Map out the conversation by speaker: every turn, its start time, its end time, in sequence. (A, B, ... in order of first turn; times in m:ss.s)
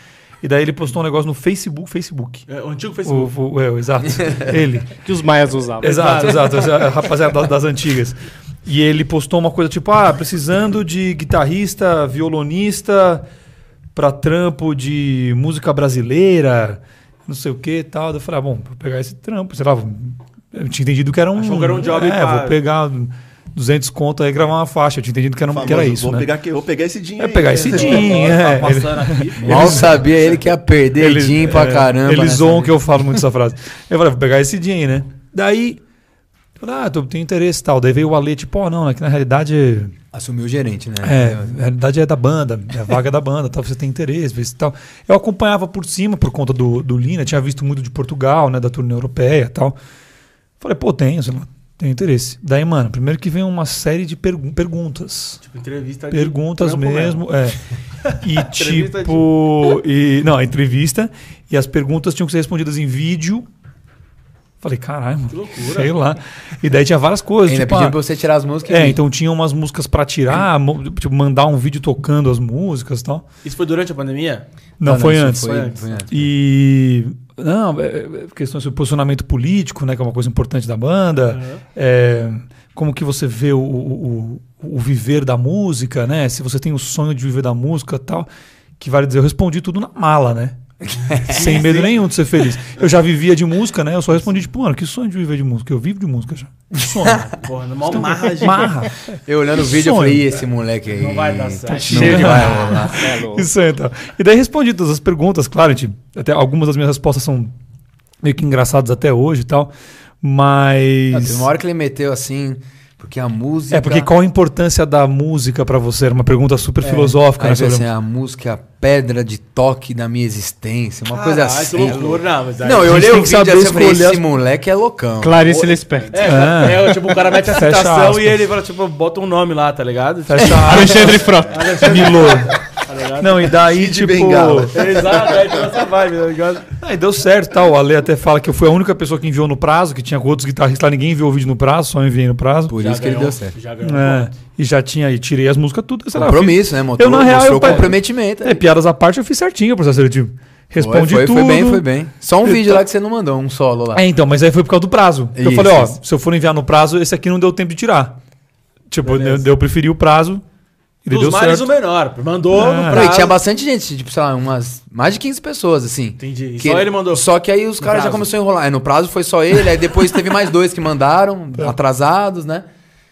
0:00.4-0:02.4 A
0:02.5-0:03.3 B
0:03.0-0:05.0 A
0:04.2-0:04.5 C
0:05.0-0:06.2 D
0:05.8-0:13.2 A
0:05.8-0:06.7 B
0:13.9-0:26.3 A
0:21.4-0:22.6 B
0:25.5-0:28.3 E
0:27.2-0:29.9 A
0:27.5-0:30.0 B
0:29.4-0:32.7 C
0:31.0-0:35.8 A
0:36.6-0:39.9 A
0:40.1-0:41.6 C
0:41.0-0:49.7 A
0:50.6-0:55.4 A
0:55.4-0:57.2 B
0:56.1-0:57.6 A
0:58.0-0:59.3 B
0:58.2-1:03.4 A
1:04.6-1:08.0 A
1:05.3-1:05.9 B
1:07.4-1:09.0 C
1:08.6-1:13.2 A
1:13.4-1:14.4 B
1:14.8-1:28.3 A
1:14.8-1:16.3 C
1:15.4-1:15.8 B
1:21.3-1:21.6 B
1:28.8-1:30.6 A
1:30.9-1:31.6 C
1:31.3-1:37.3 A
1:31.3-1:31.9 B
1:37.3-1:38.7 B
1:37.9-1:40.3 A
1:39.2-1:43.1 C
1:40.9-1:42.4 B
1:41.7-1:47.5 A
1:41.8-1:43.5 D
1:48.2-1:49.7 A
1:50.2-1:51.5 A
1:51.1-1:54.1 C
1:53.7-1:57.9 A
1:56.8-2:05.8 C
2:01.1-2:03.0 B
2:02.8-2:04.2 A
2:05.2-2:06.2 D
2:06.1-2:13.5 B
2:06.2-2:08.4 A
2:10.3-2:11.2 A
2:10.6-2:12.1 D
2:11.8-2:12.6 A
2:13.2-2:14.7 A
2:13.6-2:15.8 E
2:14.7-2:16.7 B
2:16.8-2:22.7 A
2:22.7-2:23.5 C
2:22.8-2:24.3 B
2:23.8-2:31.9 A
2:26.1-2:28.6 C
2:30.8-2:34.0 C
2:32.4-2:32.8 A
2:33.9-2:38.2 A
2:35.4-2:36.0 C
2:38.9-2:40.4 A
2:39.0-2:39.5 B
2:41.0-2:41.7 A
2:41.1-2:43.4 B
2:42.5-2:43.0 A
2:42.9-2:52.6 C
2:46.2-2:47.2 B
2:47.8-2:48.3 B